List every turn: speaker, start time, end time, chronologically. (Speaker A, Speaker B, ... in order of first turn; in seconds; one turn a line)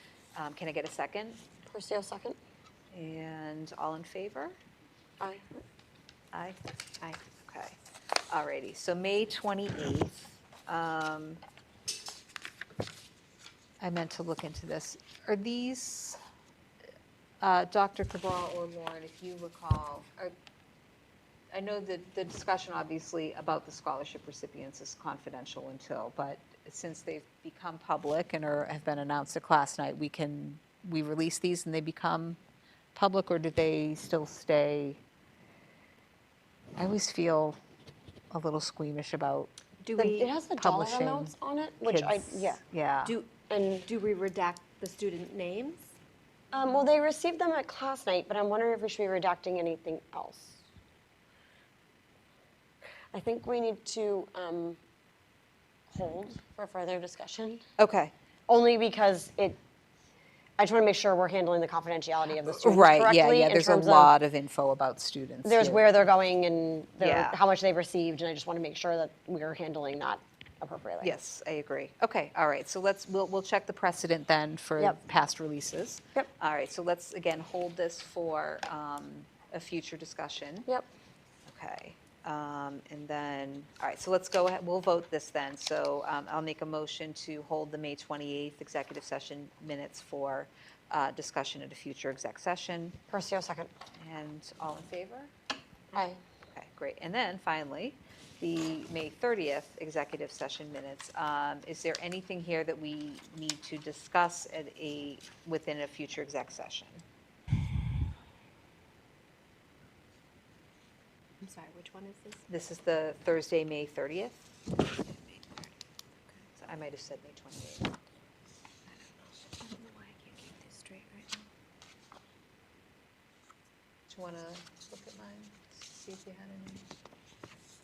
Speaker A: 0.3-1.4
Speaker B: 1.7-2.4
Speaker A: 2.9-4.6
Speaker B: 5.2-5.5
Speaker A: 6.3-7.8
Speaker A: 8.3-11.4
Speaker A: 13.8-16.2
Speaker A: 17.4-20.3
Speaker A: 21.5-32.4
Speaker A: 33.0-35.0
Speaker A: 36.8-37.6
Speaker A: 38.3-39.5
Speaker C: 39.8-40.4
Speaker B: 40.0-42.6
Speaker A: 40.6-43.2
Speaker C: 43.0-45.9
Speaker B: 43.5-43.9
Speaker B: 46.5-50.6
Speaker B: 53.1-54.8
Speaker B: 55.9-57.6
Speaker A: 57.8-58.1
Speaker B: 58.5-59.6
Speaker B: 60.6-64.1
Speaker A: 62.5-65.9
Speaker B: 65.4-71.2
Speaker A: 67.0-67.4
Speaker A: 71.0-80.7
Speaker A: 81.5-93.0
Speaker B: 93.1-93.7
Speaker A: 94.0-95.3
Speaker B: 95.9-96.2
Speaker A: 96.5-107.0
Speaker C: 111.4-112.4
Speaker A: 112.5-115.7
Speaker A: 116.6-118.0
Speaker C: 119.4-121.5
Speaker A: 124.1-126.9